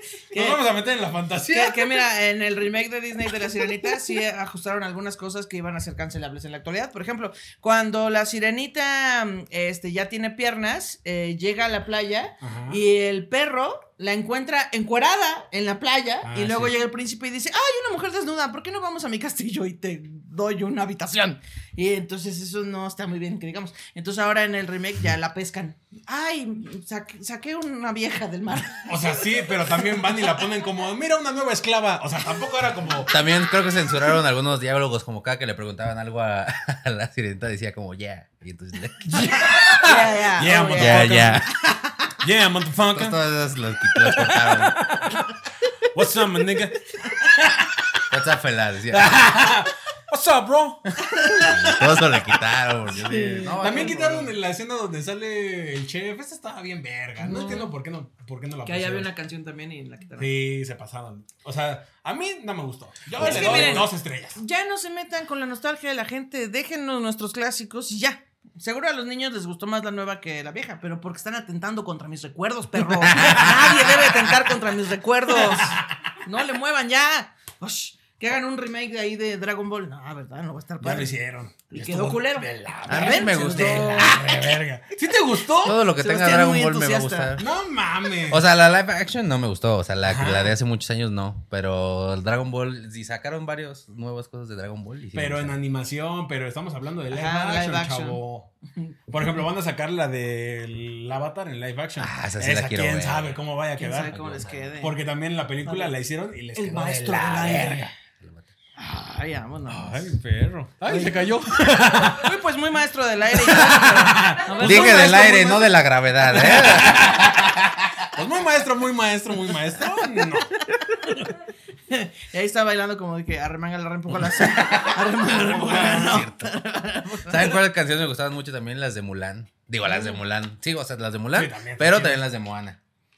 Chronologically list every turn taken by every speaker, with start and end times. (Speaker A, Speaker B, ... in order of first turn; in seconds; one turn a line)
Speaker A: 0.3-0.6
Speaker B: 0.3-2.0
Speaker A: 1.5-28.9
Speaker B: 12.4-12.8
Speaker B: 16.2-16.7
Speaker B: 28.9-33.1
Speaker C: 33.1-39.1
Speaker B: 39.0-41.4
Speaker A: 39.7-42.1
Speaker C: 40.8-41.5
Speaker B: 42.2-43.2
Speaker C: 42.9-44.8
Speaker B: 44.0-45.3
Speaker B: 45.9-47.7
Speaker C: 48.1-49.1
Speaker B: 48.9-51.4
Speaker A: 51.1-52.1
Speaker C: 51.5-54.4
Speaker A: 52.9-53.9
Speaker B: 53.6-59.1
Speaker A: 57.2-57.7
Speaker A: 58.6-60.3
Speaker B: 60.2-64.4
Speaker C: 63.2-63.9
Speaker A: 63.2-81.1
Speaker C: 73.0-73.5
Speaker B: 73.4-74.0
Speaker B: 75.3-76.0
Speaker B: 80.8-85.8
Speaker A: 81.7-84.4
Speaker C: 82.9-84.1
Speaker C: 85.6-87.4
Speaker A: 85.8-87.4
Speaker B: 87.4-88.4
Speaker C: 88.3-95.5
Speaker B: 90.0-90.5
Speaker B: 95.1-98.5
Speaker A: 97.1-98.2
Speaker B: 99.1-107.9
Speaker C: 102.0-103.4
Speaker A: 103.8-104.9
Speaker C: 104.1-104.8
Speaker A: 105.6-105.9
Speaker A: 106.5-107.9
Speaker C: 108.2-108.5
Speaker A: 108.8-110.1
Speaker B: 109.7-112.3
Speaker A: 110.8-115.8
Speaker B: 113.3-115.3
Speaker C: 114.6-118.1
Speaker B: 116.2-117.6
Speaker B: 118.1-120.5
Speaker A: 120.7-121.3
Speaker A: 121.9-127.6
Speaker B: 125.1-126.2
Speaker C: 125.7-126.5
Speaker C: 127.2-132.8
Speaker A: 129.9-130.2
Speaker B: 131.3-132.2